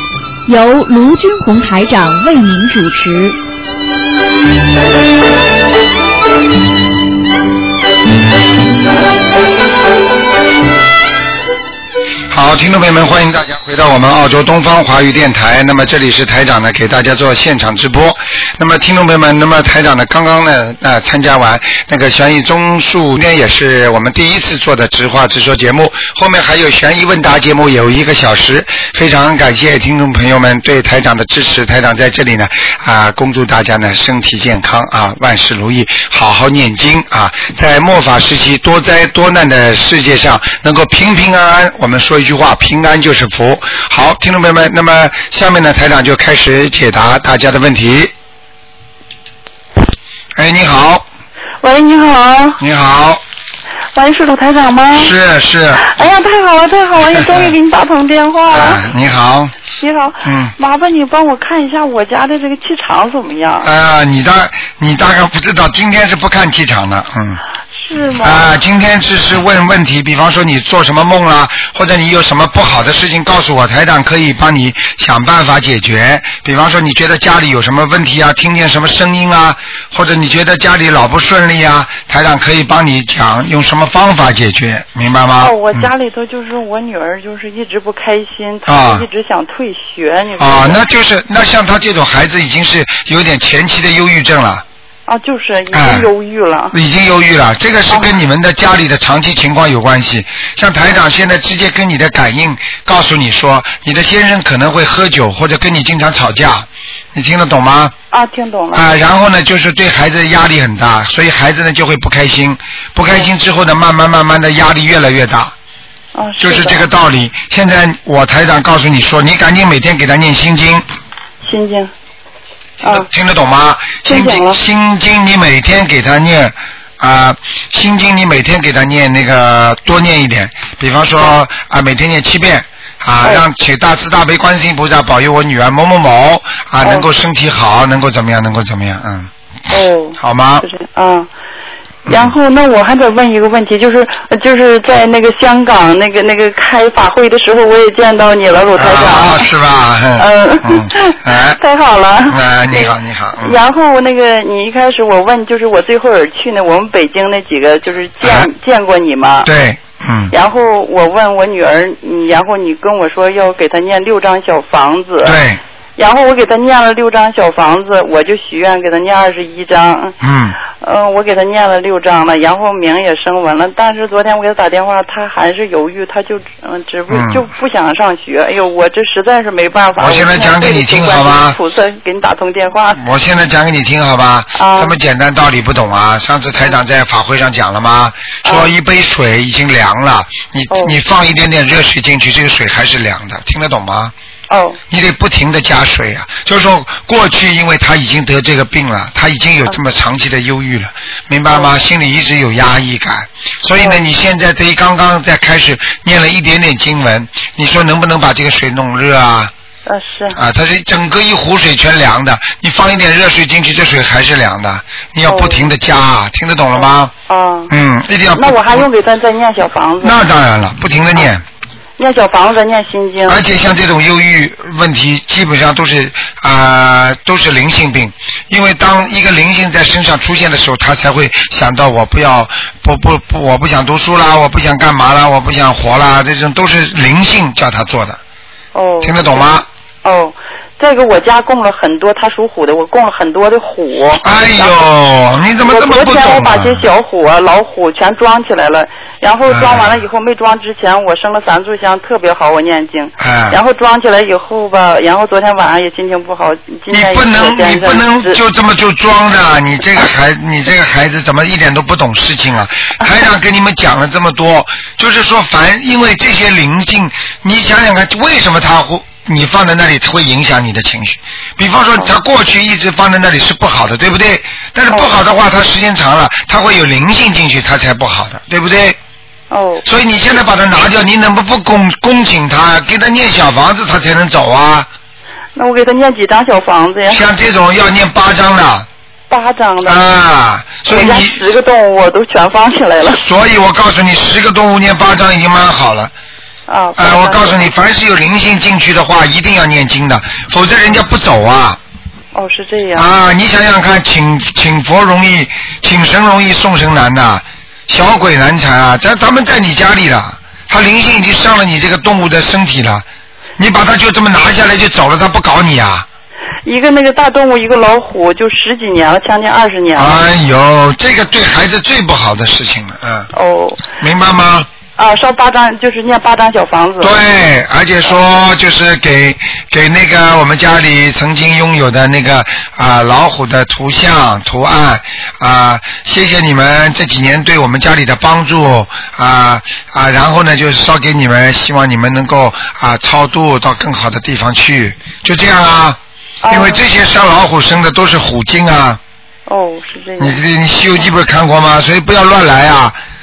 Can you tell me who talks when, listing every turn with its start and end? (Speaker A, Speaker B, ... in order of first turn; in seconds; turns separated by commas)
Speaker A: 0.5-3.4, Speaker B: 12.3-48.1, Speaker B: 50.4-51.1, Speaker C: 51.6-52.6, Speaker B: 52.6-53.2, Speaker C: 53.9-55.2, Speaker B: 54.9-56.0, Speaker C: 55.8-58.9, Speaker B: 57.0-57.5, Speaker B: 58.5-59.5, Speaker C: 59.8-63.7, Speaker B: 60.2-60.5, Speaker B: 63.6-67.4, Speaker C: 67.8-68.5, Speaker B: 68.2-85.9, Speaker C: 85.4-90.8, Speaker B: 88.7-89.1, Speaker B: 90.4-94.6, Speaker C: 95.1-96.8, Speaker B: 95.7-96.1, Speaker B: 96.7-107.9, Speaker C: 97.9-98.2, Speaker C: 108.1-108.9, Speaker B: 108.7-115.5, Speaker C: 116.2-116.9, Speaker B: 116.4-120.8, Speaker C: 121.4-121.9, Speaker B: 122.8-139.3, Speaker C: 122.8-123.1, Speaker C: 124.1-124.6, Speaker C: 139.7-141.3, Speaker B: 140.2-140.7, Speaker B: 142.1-142.3, Speaker C: 142.1-149.5, Speaker B: 148.7-151.6, Speaker C: 150.2-159.5, Speaker B: 152.3-153.6, Speaker B: 158.2-158.5, Speaker B: 159.4-160.3, Speaker C: 160.3-165.4, Speaker B: 165.2-165.6, Speaker C: 166.0-170.2, Speaker B: 170.2-170.6, Speaker C: 170.8-183.0, Speaker B: 177.1-177.5, Speaker B: 180.0-181.6, Speaker B: 183.0-194.1, Speaker C: 184.6-184.9, Speaker C: 188.4-188.7, Speaker C: 190.7-191.0, Speaker C: 194.5-194.8, Speaker B: 194.9-209.5, Speaker C: 209.9-210.4, Speaker B: 210.3-217.1, Speaker C: 215.3-215.7, Speaker C: 216.8-217.7, Speaker B: 217.7-218.9, Speaker C: 218.4-220.2, Speaker B: 220.0-221.4, Speaker C: 222.0-223.4, Speaker B: 223.3-238.2, Speaker C: 238.7-239.5, Speaker B: 239.0-239.7, Speaker C: 240.1-244.8, Speaker B: 244.2-246.8, Speaker C: 245.6-258.4, Speaker B: 249.5-250.0, Speaker B: 253.2-253.6, Speaker B: 256.9-279.0, Speaker C: 279.5-279.9, Speaker B: 279.9-284.9, Speaker C: 285.6-287.2, Speaker B: 287.1-288.9, Speaker C: 289.3-290.0, Speaker B: 289.9-291.4, Speaker C: 290.9-293.2, Speaker B: 293.1-296.1, Speaker C: 296.7-297.7, Speaker B: 297.0-301.8, Speaker C: 302.3-303.1, Speaker B: 303.0-313.1, Speaker B: 313.6-316.1, Speaker C: 316.6-320.2, Speaker B: 319.9-323.3, Speaker C: 323.3-323.9, Speaker B: 324.0-324.7, Speaker C: 325.0-327.2, Speaker B: 327.0-349.0, Speaker C: 346.4-346.8, Speaker C: 349.5-350.4, Speaker B: 350.2-353.0